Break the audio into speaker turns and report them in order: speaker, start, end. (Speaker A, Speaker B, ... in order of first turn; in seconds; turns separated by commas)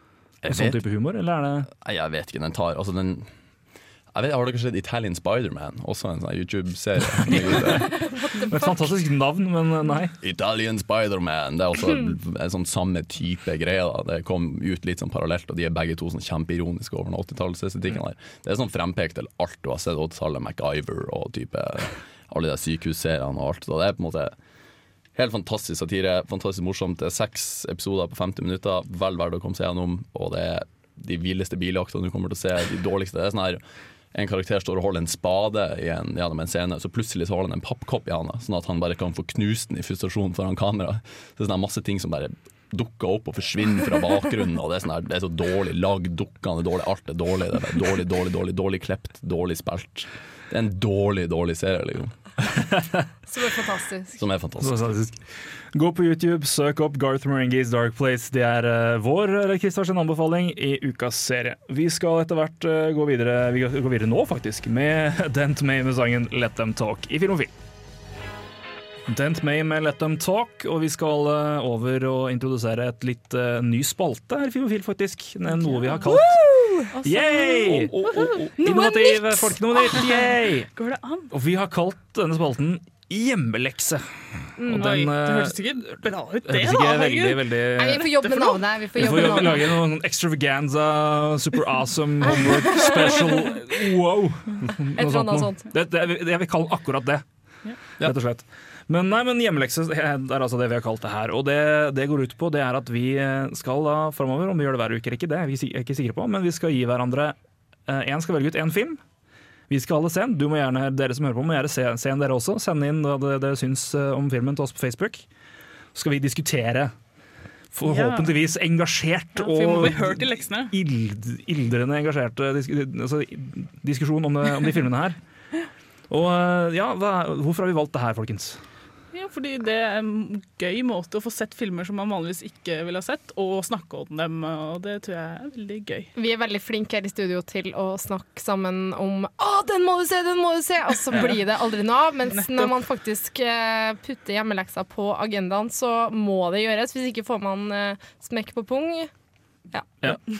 Speaker A: 0.4-0.8, Speaker B: 0.5-1.7, Speaker A: 1.7-3.3, Speaker A: 4.1-8.0, Speaker C: 7.8-8.9, Speaker B: 8.5-10.1, Speaker A: 10.2-24.3, Speaker A: 25.1-33.6, Speaker A: 34.1-52.6, Speaker C: 53.3-54.2, Speaker A: 54.1-55.0, Speaker B: 54.6-67.5, Speaker B: 69.1-76.4, Speaker D: 75.6-76.2, Speaker C: 76.4-76.7, Speaker D: 76.9-81.3, Speaker B: 77.0-80.7, Speaker C: 78.7-79.1, Speaker B: 81.3-88.1, Speaker C: 84.6-85.0, Speaker D: 84.7-88.6, Speaker C: 87.8-89.7, Speaker B: 89.0-97.2, Speaker C: 92.2-93.5, Speaker C: 95.0-95.6, Speaker B: 98.0-107.3, Speaker B: 107.9-109.0, Speaker B: 109.7-115.2, Speaker B: 115.9-116.9, Speaker B: 117.7-125.2, Speaker D: 117.8-118.3, Speaker D: 119.4-120.7, Speaker B: 126.1-128.6, Speaker D: 129.1-136.1, Speaker C: 136.1-149.1, Speaker D: 142.3-142.7